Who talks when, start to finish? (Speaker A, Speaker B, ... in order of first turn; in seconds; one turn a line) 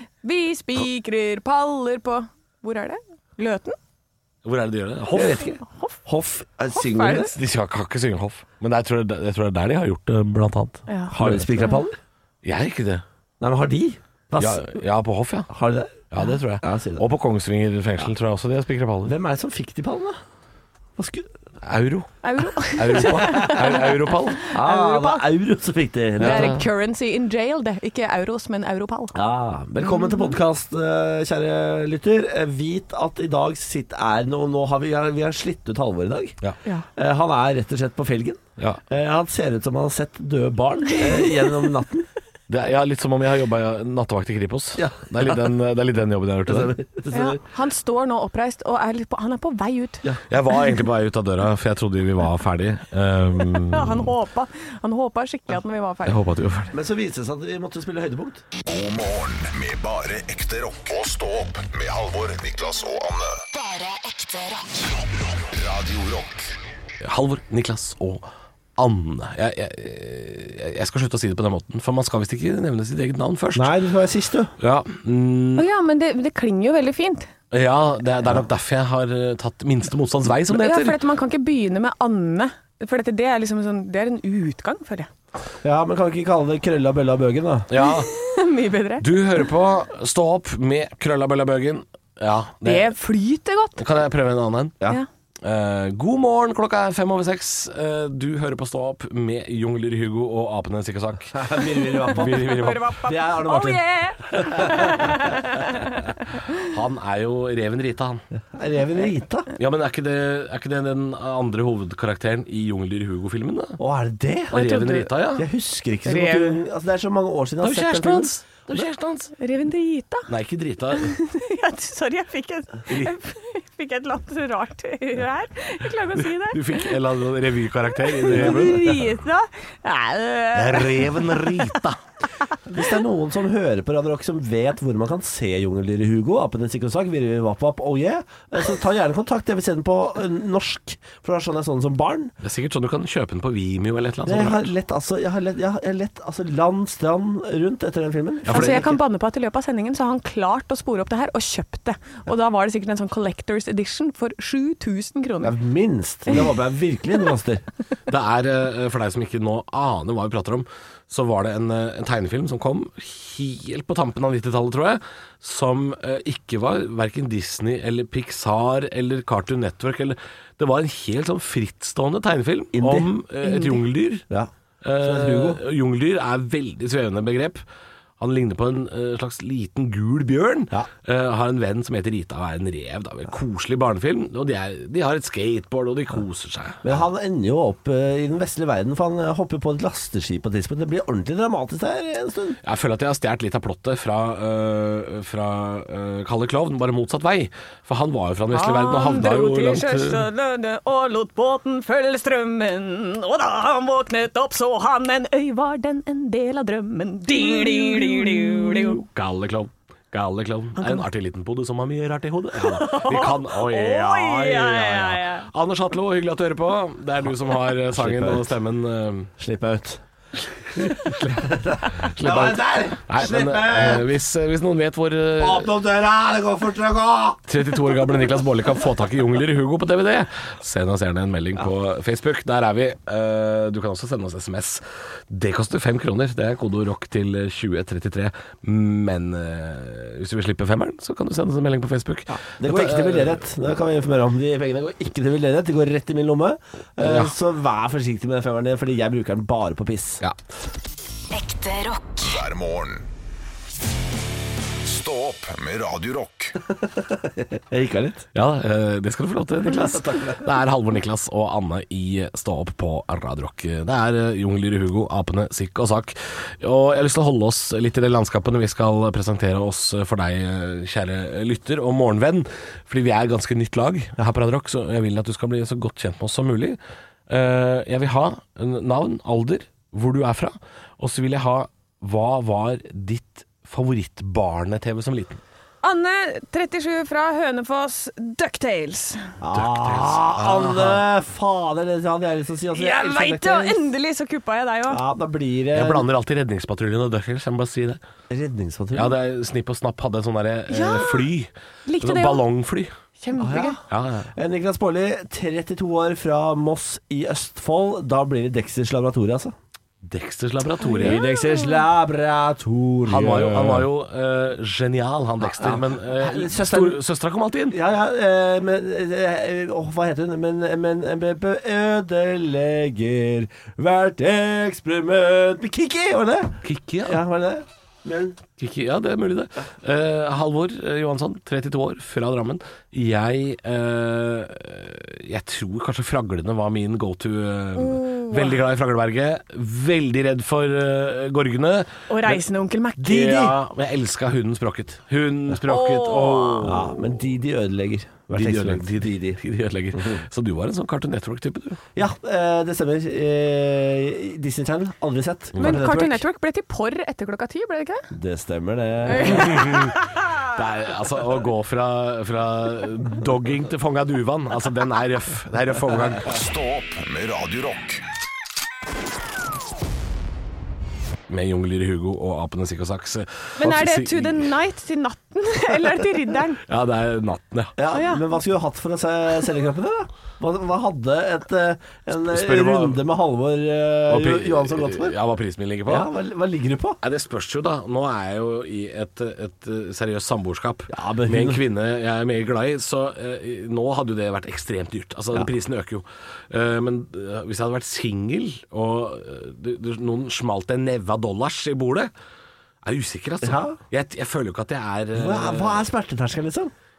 Speaker A: 0.2-3.8
Speaker B: 4.4-5.5
Speaker C: 5.1-7.3
Speaker A: 5.2-6.0
Speaker A: 6.7-7.3
Speaker B: 7.2-11.8
Speaker A: 10.9-11.8
Speaker C: 11.1-12.0
Speaker B: 12.4-13.0
Speaker C: 13.4-14.7
Speaker B: 14.4-15.5
Speaker C: 15.5-16.1
Speaker B: 16.1-19.1
Speaker C: 16.6-17.0
Speaker C: 19.1-20.2
Speaker C: 21.0-21.3
Speaker B: 21.6-24.4
Speaker A: 22.2-25.3
Speaker C: 24.5-26.5
Speaker B: 26.2-26.6
Speaker A: 26.2-29.1
Speaker C: 29.1-36.4
Speaker A: 29.8-30.3
Speaker C: 37.0-42.1
Speaker B: 42.5-46.7
Speaker C: 44.8-45.5
Speaker C: 46.5-47.4
Speaker A: 47.1-50.0
Speaker B: 50.3-54.1
Speaker A: 53.6-56.2
Speaker B: 56.0-56.7
Speaker C: 56.7-58.4
Speaker D: 58.6-63.4
Speaker E: 63.5-64.9
Speaker D: 65.4-66.5
Speaker B: 67.0-73.8
Speaker C: 73.5-74.5
Speaker B: 74.6-75.6
Speaker A: 75.5-77.3
Speaker B: 77.5-81.0
Speaker A: 80.5-85.1
Speaker C: 85.6-87.7
Speaker B: 87.7-88.1
Speaker A: 87.8-89.0
Speaker B: 89.0-92.9
Speaker A: 92.6-93.8
Speaker B: 93.8-94.8
Speaker B: 95.4-101.5
Speaker C: 101.3-102.5
Speaker B: 102.0-102.8
Speaker A: 102.2-106.1
Speaker C: 103.0-105.2
Speaker B: 106.6-108.2
Speaker C: 108.5-109.5
Speaker B: 109.5-113.8
Speaker C: 113.8-114.7
Speaker B: 114.5-115.5
Speaker A: 114.5-115.1
Speaker C: 115.3-118.8
Speaker A: 116.0-116.6
Speaker B: 117.6-119.3
Speaker A: 119.4-120.3
Speaker B: 120.3-121.2
Speaker A: 120.9-127.0
Speaker B: 122.9-123.1
Speaker B: 126.2-129.0
Speaker A: 128.0-131.7
Speaker C: 128.4-128.8
Speaker B: 130.5-132.0
Speaker C: 132.7-142.3
Speaker B: 142.4-144.7
Speaker C: 144.2-148.9
Speaker B: 148.4-148.9
Speaker A: 148.5-155.6
Speaker C: 155.4-157.6
Speaker B: 158.1-174.2
Speaker C: 172.7-173.1
Speaker A: 173.4-173.8
Speaker C: 174.3-175.6
Speaker B: 174.8-177.6
Speaker B: 178.2-187.0
Speaker C: 186.8-192.6
Speaker B: 192.6-200.2
Speaker A: 198.5-209.0
Speaker B: 207.3-219.3
Speaker A: 210.8-211.1
Speaker A: 212.6-215.5
Speaker C: 217.9-218.5
Speaker C: 219.4-220.0
Speaker C: 220.8-224.0
Speaker B: 220.8-221.5
Speaker B: 222.0-225.7
Speaker C: 225.4-227.4
Speaker B: 227.5-243.4
Speaker C: 242.3-250.2
Speaker B: 247.0-247.3
Speaker E: 251.3-252.3
Speaker D: 252.2-253.1
Speaker D: 254.8-256.6
Speaker C: 256.8-258.2
Speaker B: 258.3-285.4
Speaker C: 259.8-260.4
Speaker A: 285.8-289.3
Speaker C: 289.4-293.9
Speaker B: 289.5-291.1
Speaker A: 292.7-295.0
Speaker C: 294.9-296.0
Speaker B: 295.7-298.0
Speaker C: 298.3-299.2
Speaker B: 298.9-302.9
Speaker A: 300.7-301.2
Speaker A: 301.9-302.4
Speaker A: 303.2-303.8
Speaker C: 303.4-303.8
Speaker B: 303.9-304.3
Speaker C: 304.3-309.5
Speaker B: 310.0-311.2
Speaker A: 310.8-311.8
Speaker C: 310.9-313.9
Speaker B: 313.1-317.8
Speaker C: 315.4-317.0
Speaker C: 317.7-328.4
Speaker B: 326.6-327.2
Speaker B: 328.6-342.4
Speaker A: 337.8-338.6
Speaker A: 342.1-343.4
Speaker B: 343.0-347.1
Speaker C: 343.1-343.5
Speaker A: 345.7-346.7
Speaker C: 346.6-349.4
Speaker B: 348.3-351.8
Speaker C: 351.9-356.2
Speaker B: 355.5-355.9
Speaker A: 355.6-358.1
Speaker C: 358.1-359.8
Speaker A: 359.1-360.2
Speaker B: 359.1-366.3
Speaker D: 366.2-368.0
Speaker B: 371.3-374.5
Speaker A: 373.6-376.6
Speaker B: 376.6-377.7
Speaker C: 377.8-385.1
Speaker A: 377.9-378.3
Speaker B: 382.3-383.0
Speaker B: 384.1-386.1
Speaker C: 385.9-387.0
Speaker B: 387.0-402.1
Speaker C: 390.9-391.6
Speaker B: 402.8-405.9
Speaker C: 403.4-403.8
Speaker C: 405.1-406.7